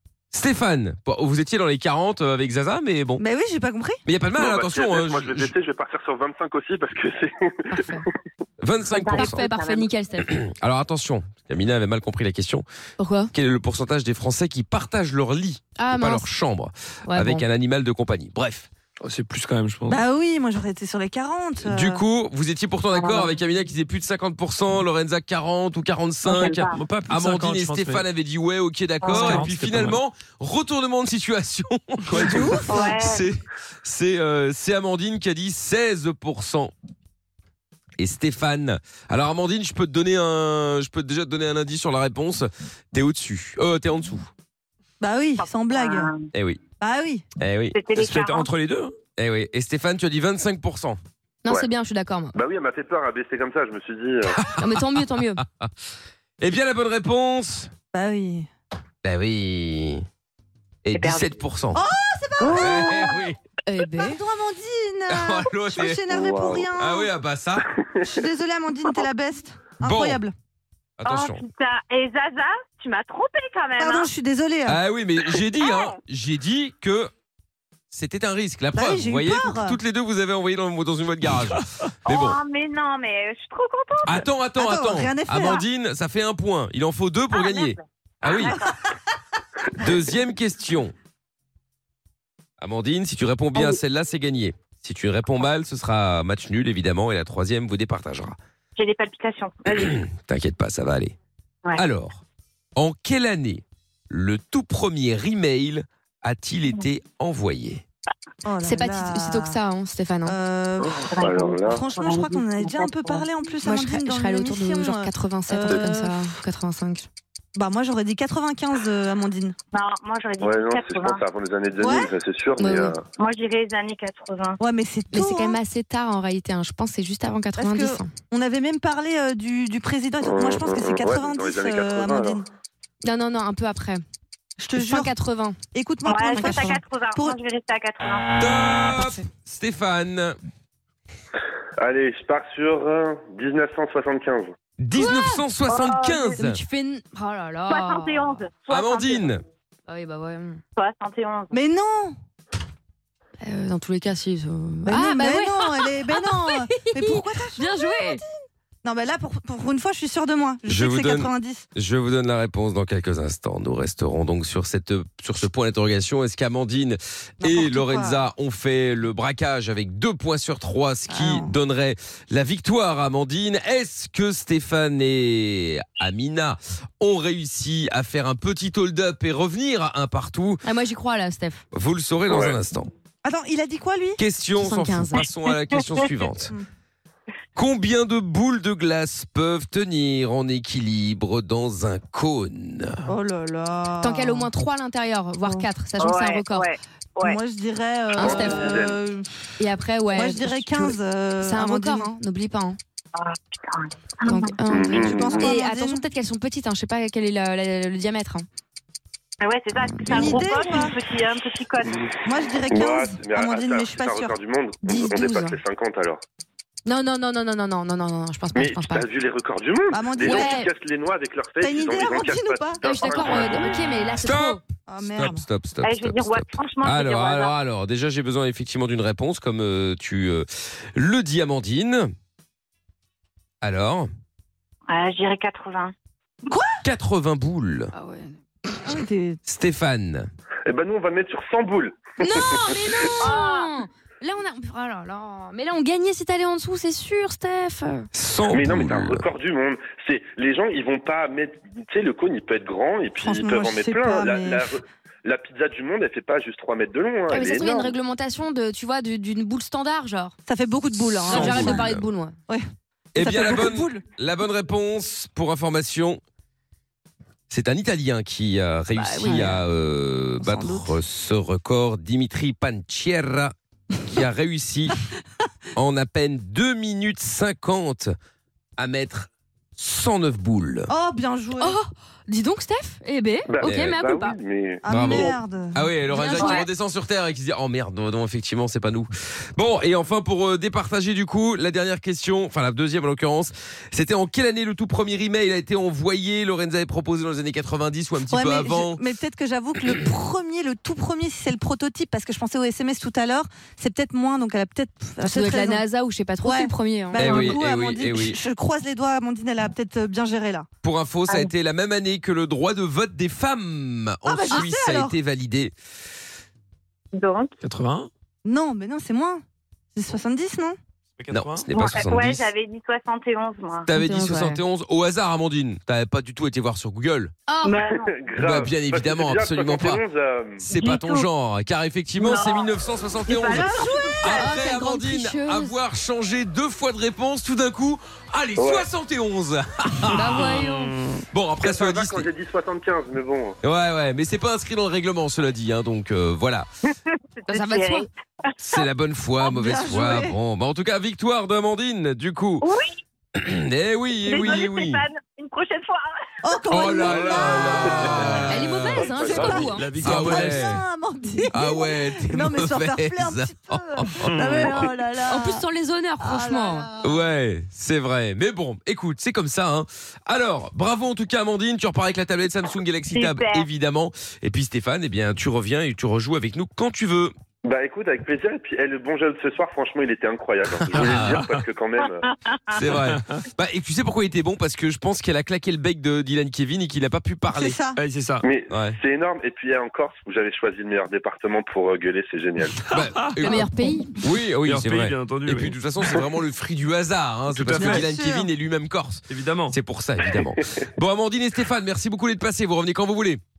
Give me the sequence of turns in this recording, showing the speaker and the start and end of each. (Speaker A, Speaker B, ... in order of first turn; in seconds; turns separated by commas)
Speaker A: 0.3-3.2, Speaker B: 3.2-4.0, Speaker A: 4.1-5.5, Speaker C: 4.4-8.1, Speaker D: 7.7-8.1, Speaker A: 8.6-9.5, Speaker E: 8.9-9.9, Speaker D: 9.1-10.3, Speaker A: 10.2-12.7, Speaker D: 13.0-13.3, Speaker A: 13.3-18.7, Speaker D: 15.8-16.3, Speaker D: 17.1-17.4, Speaker F: 19.0-20.0, Speaker B: 19.9-22.0, Speaker A: 21.6-36.7, Speaker E: 22.9-23.3, Speaker E: 26.3-26.8, Speaker F: 26.7-28.1, Speaker E: 29.0-29.5, Speaker F: 29.1-30.0, Speaker F: 32.1-32.4, Speaker B: 32.3-32.7, Speaker E: 32.7-33.3, Speaker A: 38.0-44.3, Speaker B: 45.0-46.1, Speaker E: 45.4-46.2, Speaker A: 46.3-46.6, Speaker B: 46.8-47.2, Speaker A: 47.4-47.8, Speaker E: 47.7-48.5, Speaker F: 48.0-49.0, Speaker A: 49.2-51.0, Speaker D: 51.4-52.4, Speaker C: 52.3-54.4, Speaker A: 54.4-55.0, Speaker D: 54.5-55.4, Speaker A: 56.4-57.7, Speaker B: 57.9-58.5, Speaker A: 59.0-60.0, Speaker A: 60.9-61.8, Speaker E: 60.9-61.2, Speaker B: 61.7-63.2, Speaker E: 62.4-63.2, Speaker A: 62.5-63.4, Speaker D: 63.7-64.2, Speaker B: 63.9-67.1, Speaker A: 65.1-66.0, Speaker C: 66.1-66.6, Speaker A: 66.8-67.7, Speaker C: 67.8-68.1, Speaker B: 68.1-70.3, Speaker A: 69.8-70.2, Speaker A: 71.0-71.4, Speaker E: 71.0-74.1, Speaker B: 73.8-74.8, Speaker A: 74.7-77.1, Speaker E: 75.6-76.0, Speaker A: 77.9-82.4, Speaker B: 78.7-79.8, Speaker E: 82.1-84.3, Speaker A: 84.0-88.6, Speaker B: 84.6-85.6, Speaker E: 87.3-88.9, Speaker A: 89.8-90.9, Speaker A: 92.6-98.4, Speaker E: 98.8-100.0, Speaker A: 99.7-101.2, Speaker A: 101.8-102.2, Speaker A: 102.8-107.8, Speaker B: 108.5-109.6, Speaker D: 108.6-110.4, Speaker B: 110.2-110.9, Speaker C: 110.8-111.8, Speaker E: 111.1-113.3, Speaker B: 111.6-116.3, Speaker D: 113.6-117.1, Speaker B: 117.6-119.5, Speaker E: 119.7-121.2, Speaker C: 120.4-123.0, Speaker B: 121.8-122.1, Speaker D: 122.6-123.0, Speaker E: 123.2-124.6, Speaker B: 124.6-125.6, Speaker D: 125.1-128.2, Speaker B: 127.6-132.5, Speaker C: 130.2-132.4, Speaker D: 133.0-134.0, Speaker B: 134.6-135.2, Speaker D: 134.8-135.6, Speaker B: 135.7-137.4, Speaker E: 136.1-138.3, Speaker A: 138.4-140.4, Speaker C: 141.8-144.5, Speaker A: 144.8-146.6, Speaker E: 145.7-146.4, Speaker D: 146.3-148.4, Speaker E: 147.7-149.3, Speaker A: 148.7-149.4, Speaker D: 149.9-150.6, Speaker E: 150.8-151.6, Speaker B: 151.5-152.2, Speaker D: 153.4-158.2, Speaker B: 154.9-161.7, Speaker A: 160.7-180.6, Speaker B: 167.4-168.3, Speaker B: 171.1-171.5, Speaker D: 180.6-181.6, Speaker A: 181.7-182.9, Speaker C: 182.3-182.6, Speaker B: 183.2-184.2, Speaker A: 184.2-186.6, Speaker D: 184.6-185.2, Speaker A: 187.6-193.1, Speaker B: 193.1-194.5, Speaker D: 194.0-196.8, Speaker B: 195.4-195.7, Speaker E: 196.0-197.4, Speaker B: 197.2-199.5, Speaker D: 198.2-198.8, Speaker C: 198.2-199.0, Speaker D: 199.6-202.8, Speaker B: 200.1-202.2, Speaker E: 203.2-204.5, Speaker D: 204.3-208.4, Speaker C: 204.7-205.6, Speaker B: 204.9-206.0, Speaker E: 209.4-212.1, Speaker D: 209.8-210.2, Speaker B: 210.1-211.0, Speaker B: 212.2-215.6, Speaker C: 212.7-216.2, Speaker D: 216.9-219.1, Speaker C: 218.6-224.0, Speaker B: 219.9-220.7, Speaker D: 220.2-220.7, Speaker B: 221.6-223.5, Speaker D: 222.8-224.6, Speaker A: 224.2-224.6, Speaker B: 224.9-225.4, Speaker A: 225.2-232.1, Speaker E: 225.8-227.5, Speaker A: 233.6-234.1, Speaker E: 234.9-235.9, Speaker B: 236.5-236.7, Speaker A: 236.8-237.9, Speaker D: 237.9-238.4, Speaker B: 238.8-239.4, Speaker A: 239.5-240.3, Speaker C: 240.7-243.3, Speaker D: 242.2-248.1, Speaker E: 243.2-243.7, Speaker A: 248.1-249.3, Speaker C: 248.5-258.0, Speaker B: 253.2-254.7, Speaker D: 257.3-260.4, Speaker B: 260.5-261.8, Speaker D: 261.3-262.4, Speaker A: 261.3-262.0, Speaker F: 261.4-262.1, Speaker A: 263.1-266.2, Speaker B: 263.2-264.0, Speaker A: 267.5-273.5, Speaker D: 268.9-269.6, Speaker B: 270.4-270.9, Speaker A: 274.1-275.0, Speaker A: 275.8-278.1, Speaker A: 278.8-280.9, Speaker B: 280.9-281.8, Speaker D: 281.6-284.4, Speaker C: 283.5-285.4, Speaker A: 283.6-284.0, Speaker B: 284.8-285.9, Speaker A: 284.9-299.0, Speaker D: 286.2-286.6, Speaker E: 286.4-286.7, Speaker B: 298.3-305.9, Speaker D: 305.2-307.3, Speaker B: 306.4-310.7, Speaker A: 307.1-308.4, Speaker E: 307.2-307.6, Speaker A: 310.8-315.7, Speaker B: 314.3-315.2, Speaker E: 317.1-317.5, Speaker F: 317.6-318.1, Speaker B: 318.4-319.4, Speaker B: 319.9-320.8, Speaker F: 321.2-321.7, Speaker A: 321.3-322.5, Speaker E: 321.8-323.9, Speaker A: 323.9-327.3, Speaker D: 323.9-324.6, Speaker D: 327.5-327.8, Speaker E: 327.6-328.1, Speaker C: 327.8-330.6, Speaker A: 328.4-330.0, Speaker A: 330.6-340.6, Speaker E: 330.7-331.3, Speaker E: 332.2-334.6, Speaker D: 333.7-335.8, Speaker C: 338.6-338.9, Speaker D: 340.1-341.2, Speaker F: 340.4-340.9, Speaker A: 341.3-342.3, Speaker C: 341.6-343.6, Speaker A: 343.6-346.7, Speaker E: 347.2-348.1, Speaker D: 347.5-348.1, Speaker A: 348.6-352.7, Speaker B: 349.4-350.4, Speaker E: 352.6-353.0, Speaker A: 353.4-355.0, Speaker E: 354.3-356.1, Speaker B: 356.4-358.4, Speaker A: 356.7-359.1, Speaker F: 357.0-358.3, Speaker C: 357.8-359.8, Speaker D: 358.5-360.0, Speaker B: 359.3-365.6, Speaker F: 359.4-360.7, Speaker A: 360.0-360.8, Speaker A: 361.5-364.7, Speaker F: 364.2-364.7, Speaker D: 365.3-366.9, Speaker B: 366.2-367.2, Speaker A: 367.0-377.3, Speaker E: 373.1-373.7, Speaker C: 377.6-382.3, Speaker A: 380.7-381.5, Speaker A: 382.7-387.8, Speaker B: 387.5-388.0, Speaker F: 388.0-388.4, Speaker C: 388.4-392.8, Speaker A: 388.7-389.0, Speaker F: 392.9-393.5, Speaker A: 392.9-403.4, Speaker D: 393.5-394.2, Speaker F: 394.7-396.2, Speaker F: 397.5-398.1, Speaker B: 397.7-398.5, Speaker F: 399.3-399.8